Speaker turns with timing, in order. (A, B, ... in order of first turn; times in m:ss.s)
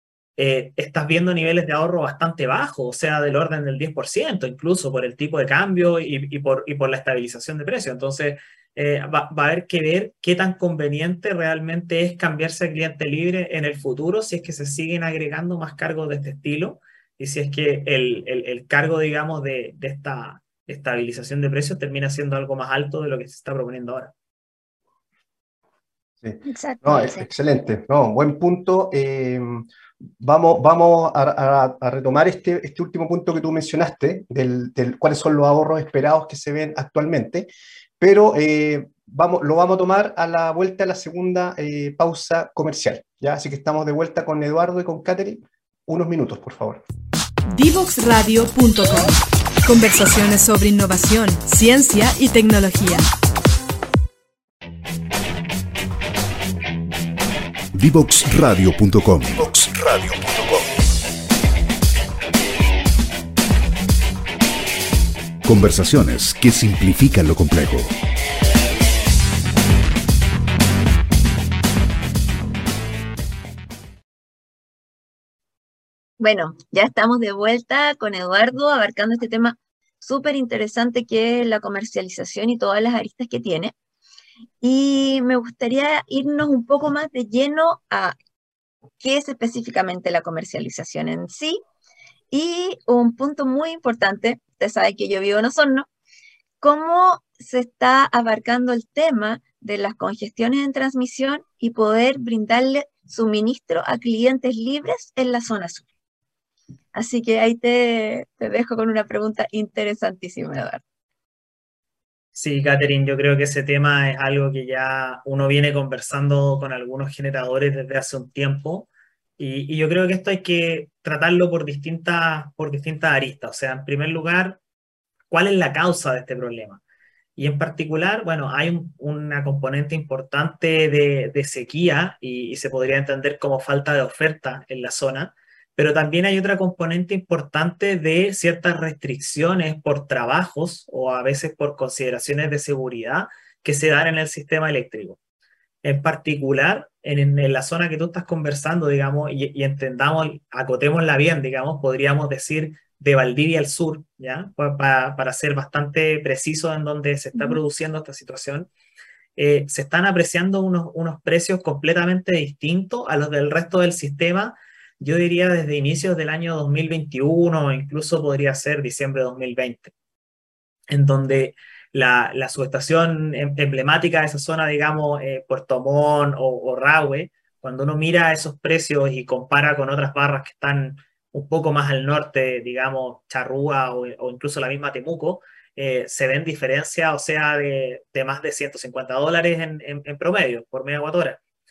0:00.4-0:24.1 A
0:26.2-0:29.7 B
0:26.4-0:27.3 C
0:30.2-0:37.5 B
0:38.0-0:46.8 B
0:47.5-0:53.0 D
0:57.7-1:00.7 E
1:05.4-1:07.9 E
1:16.2-1:23.7 C
1:24.6-1:28.2 C
1:29.0-1:31.6 C
1:32.3-1:35.9 C
1:36.6-1:45.9 C
1:46.9-1:50.8 C
1:52.4-2:04.6 A
2:05.3-2:06.8 A
2:07.4-2:25.2 A
2:25.8-2:38.7 A
2:39.4-2:49.9 A
2:50.9-3:11.4 A